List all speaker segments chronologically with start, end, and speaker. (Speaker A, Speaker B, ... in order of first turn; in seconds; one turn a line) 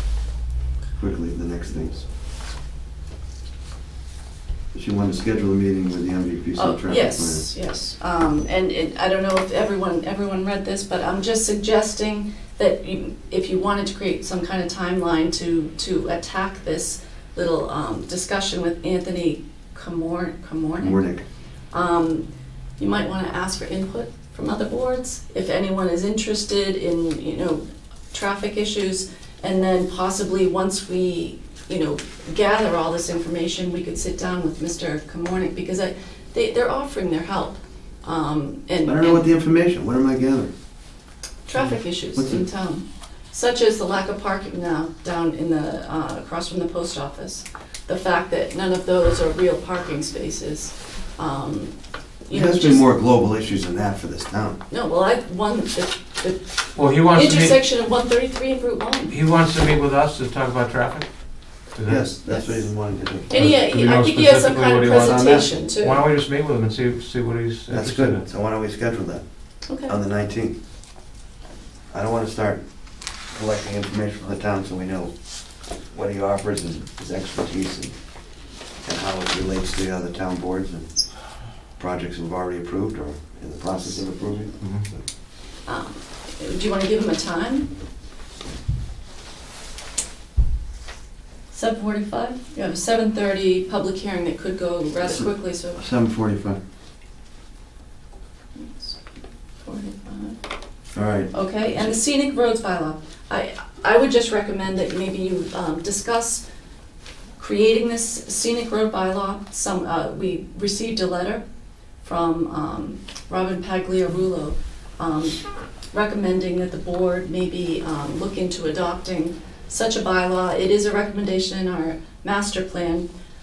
Speaker A: 1.0-2.1
Speaker A: 4.7-7.5
Speaker B: 6.6-21.1
Speaker A: 20.8-21.2
Speaker B: 21.7-22.3
Speaker B: 22.8-39.3
Speaker A: 38.8-40.5
Speaker B: 41.5-51.7
Speaker A: 41.5-42.4
Speaker B: 52.2-52.9
Speaker A: 52.3-54.6
Speaker B: 54.7-59.2
Speaker C: 56.8-57.6
Speaker C: 59.1-62.1
Speaker A: 61.8-63.3
Speaker B: 62.3-62.7
Speaker B: 63.3-66.0
Speaker C: 63.3-68.3
Speaker A: 64.9-65.5
Speaker A: 67.7-70.5
Speaker B: 69.7-69.9
Speaker A: 71.9-85.1
Speaker C: 84.6-84.9
Speaker B: 85.7-87.7
Speaker B: 91.5-95.8
Speaker A: 95.0-96.6
Speaker B: 98.5-99.0
Speaker B: 99.6-100.4
Speaker A: 100.9-102.0
Speaker B: 101.3-106.4
Speaker B: 107.4-111.4
Speaker B: 112.0-123.1